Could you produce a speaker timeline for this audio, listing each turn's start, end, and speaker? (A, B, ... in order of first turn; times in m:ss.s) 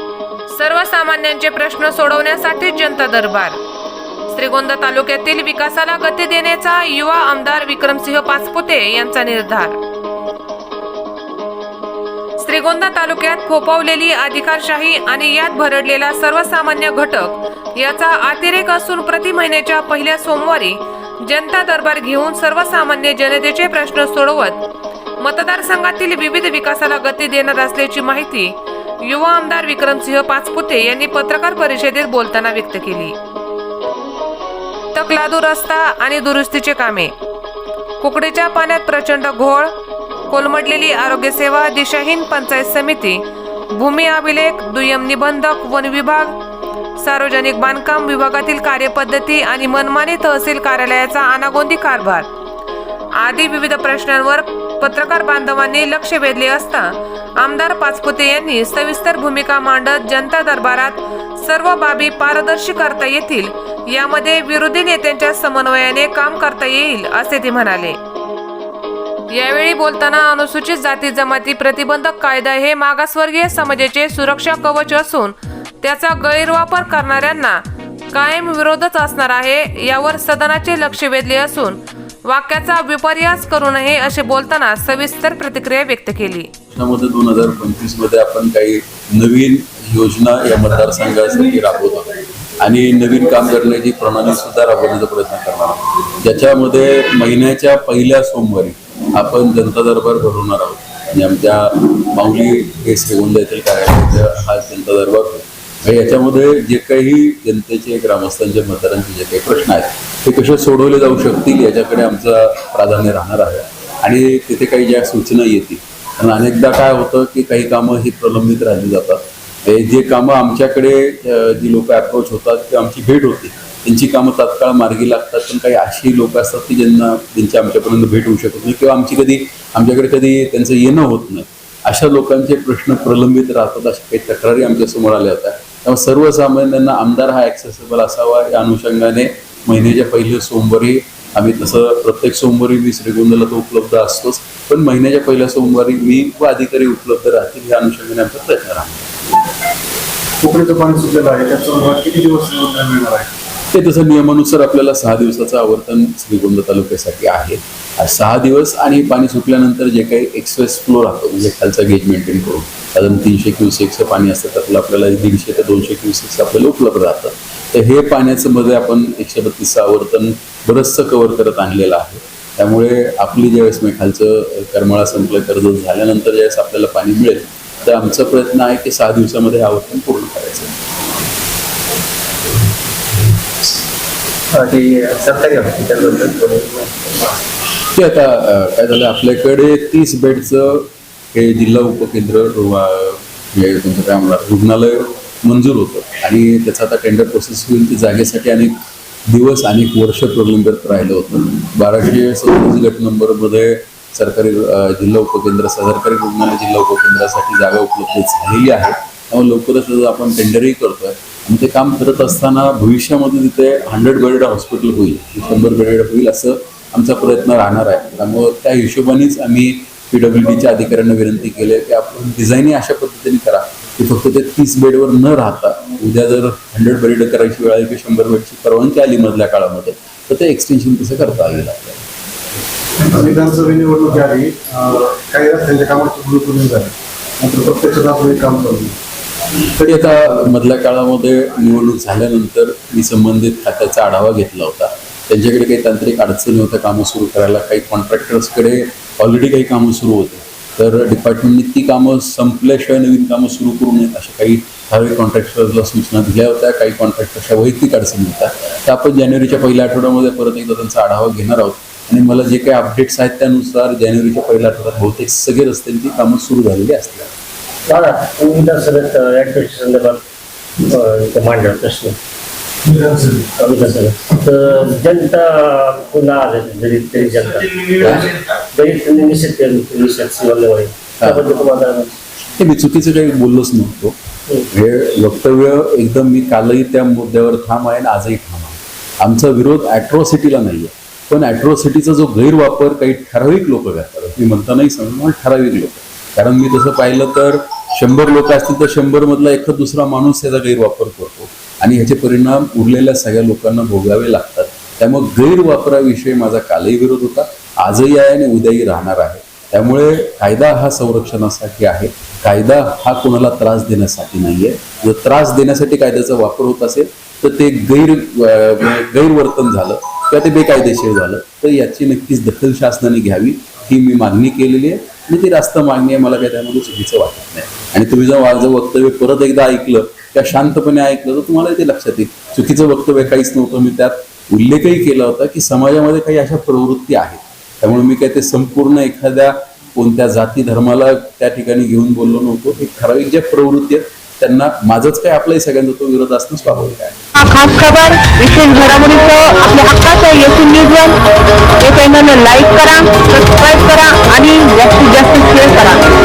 0:00.5-0:03.6 A
0:04.3-0:09.8 A
0:12.4-0:24.6 A
0:25.2-0:33.2 A
0:34.9-0:37.1 A
0:38.0-0:39.7 A
0:40.3-0:46.4 A
0:47.0-0:52.3 A
0:53.2-1:08.0 A
1:09.3-1:26.5 A
1:26.7-2:29.1 B
2:30.4-2:33.3 C
2:33.7-3:00.8 B
3:04.5-3:06.9 D
3:07.9-3:18.7 B
3:19.3-3:52.0 B
3:53.0-3:59.0 C
3:59.8-4:00.4 C
3:59.9-4:27.3 B
4:27.9-4:30.2 D
4:30.8-4:32.2 D
4:32.9-4:33.4 C
4:33.6-4:42.2 D
4:41.2-4:41.5 B
4:42.6-4:44.2 B
4:44.7-5:47.2 B
5:47.4-5:51.2 E
5:51.8-5:56.0 E